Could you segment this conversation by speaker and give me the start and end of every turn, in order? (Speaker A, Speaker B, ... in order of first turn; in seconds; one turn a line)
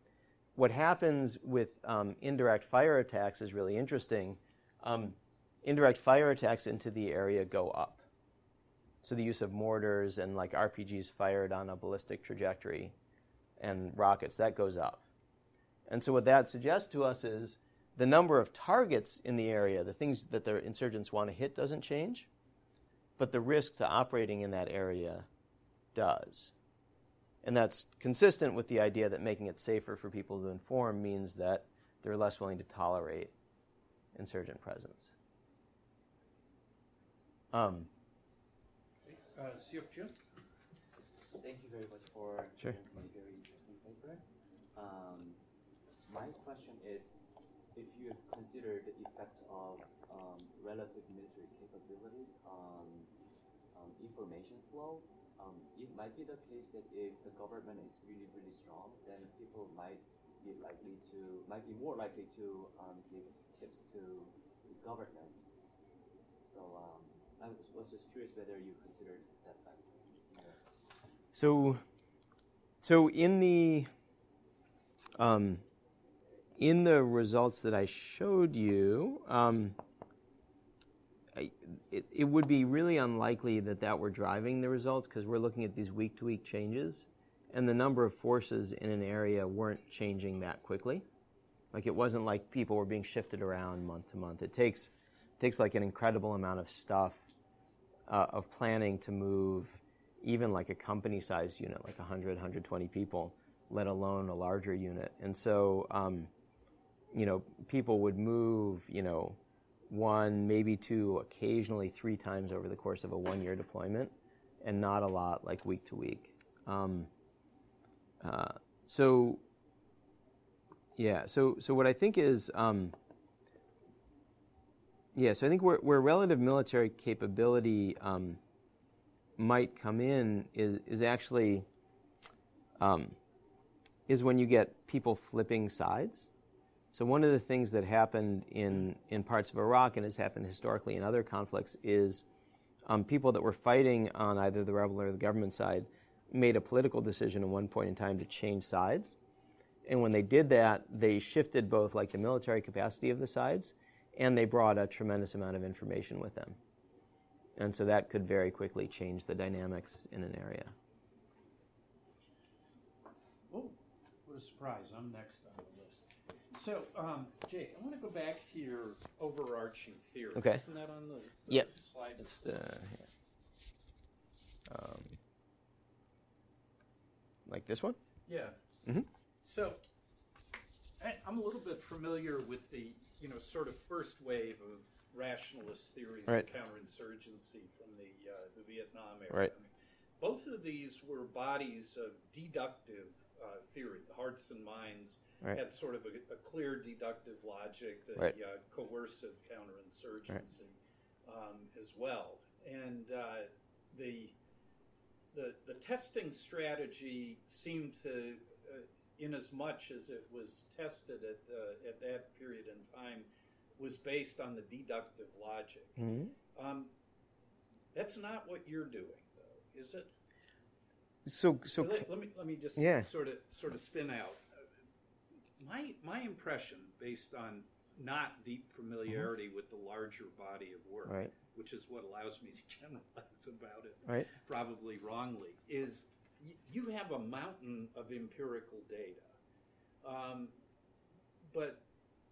Speaker A: 0.6-8.0
Speaker A: 9.0-12.9
Speaker A: 13.6-15.0
Speaker A: 15.9-22.3
Speaker A: 23.2-25.3
Speaker A: 25.9-26.5
Speaker A: 27.4-33.3
Speaker A: 34.1-35.1
Speaker A: 37.5-37.9
Speaker B: 39.0-40.2
Speaker C: 41.3-44.2
Speaker C: 44.7-45.4
Speaker C: 46.0-53.1
Speaker C: 53.7-65.4
Speaker C: 66.4-70.6
Speaker A: 71.3-71.8
Speaker A: 72.8-73.9
Speaker A: 75.2-75.6
Speaker A: 76.6-79.8
Speaker A: 81.3-91.0
Speaker A: 91.7-97.2
Speaker A: 98.1-106.3
Speaker A: 107.1-109.4
Speaker A: 109.9-117.1
Speaker A: 118.2-119.4
Speaker A: 121.0-122.9
Speaker A: 125.1-128.4
Speaker A: 129.4-131.7
Speaker A: 132.8-133.2
Speaker A: 134.1-136.3
Speaker A: 136.9-142.2
Speaker A: 142.8-149.2
Speaker A: 149.8-156.6
Speaker A: 157.6-160.7
Speaker B: 163.5-172.4
Speaker A: 170.3-170.6
Speaker A: 171.5-173.0
Speaker A: 174.7-175.2
Speaker A: 177.5-178.0
Speaker B: 178.2-178.6
Speaker B: 179.4-179.8
Speaker B: 181.0-204.3
Speaker B: 205.3-216.0
Speaker A: 216.0-216.3
Speaker B: 216.5-216.9
Speaker B: 217.9-220.1
Speaker A: 221.2-222.1
Speaker B: 221.8-224.4
Speaker A: 222.8-223.1
Speaker B: 225.6-239.3
Speaker A: 231.1-231.3
Speaker B: 240.0-240.5
Speaker B: 241.5-241.8